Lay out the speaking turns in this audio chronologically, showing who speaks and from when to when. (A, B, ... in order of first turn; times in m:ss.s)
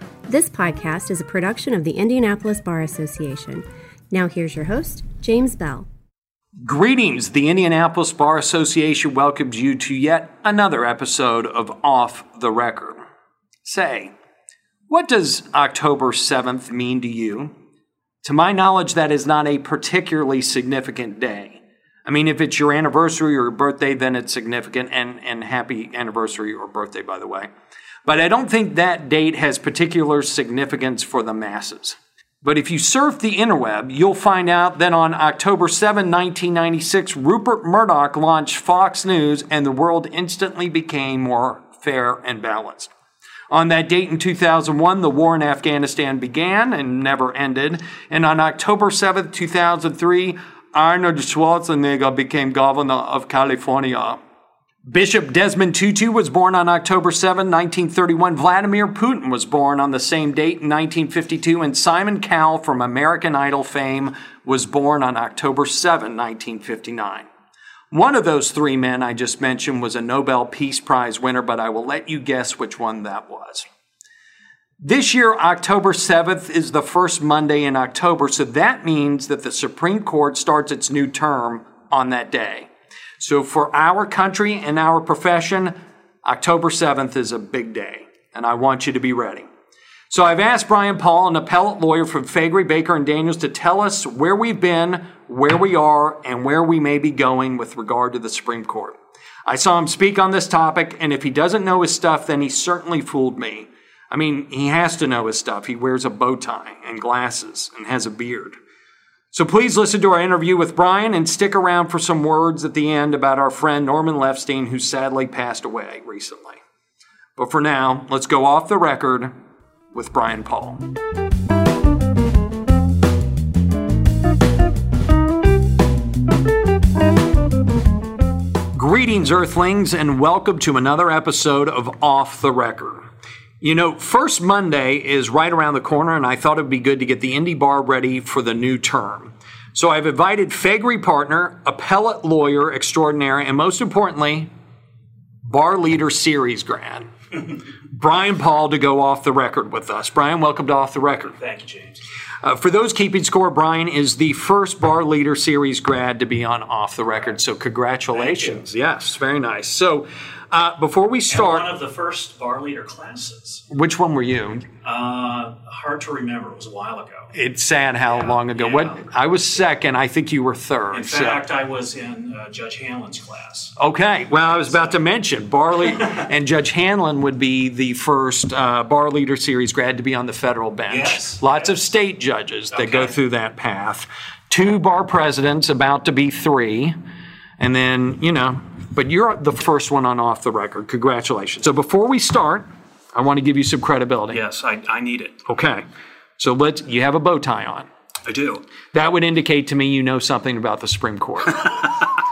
0:00.3-0:05.9 A
0:06.6-0:13.0 B
0:13.6-0:14.1 B
0:14.9-0:17.5 B
0:18.2-0:27.5 B
0:28.0-0:42.9 B
0:43.5-0:54.2 B
0:54.8-1:07.3 B
1:07.9-1:13.7 B
1:14.8-1:29.5 B
1:30.1-1:48.6 B
1:49.3-1:56.6 B
1:57.4-1:59.3 B
1:59.9-2:00.8 B
2:08.7-2:13.1 B
2:13.6-2:24.5 B
2:25.4-2:27.1 B
2:27.9-2:31.4 B
2:31.4-2:32.0 C
2:32.4-2:41.7 B
2:38.1-2:38.6 C
2:41.3-2:43.6 C
2:43.7-2:44.7 B
2:44.8-2:47.3 C
2:47.3-2:51.4 B
2:48.1-2:49.1 C
2:50.9-2:53.8 C
2:53.8-3:07.0 B
2:54.7-2:54.9 C
3:00.9-3:01.7 C
3:02.7-3:03.1 C
3:07.6-3:14.4 B
3:14.3-3:15.4 C
3:15.4-3:15.8 B
3:16.4-3:17.9 B
3:18.2-3:18.6 C
3:18.9-3:21.9 B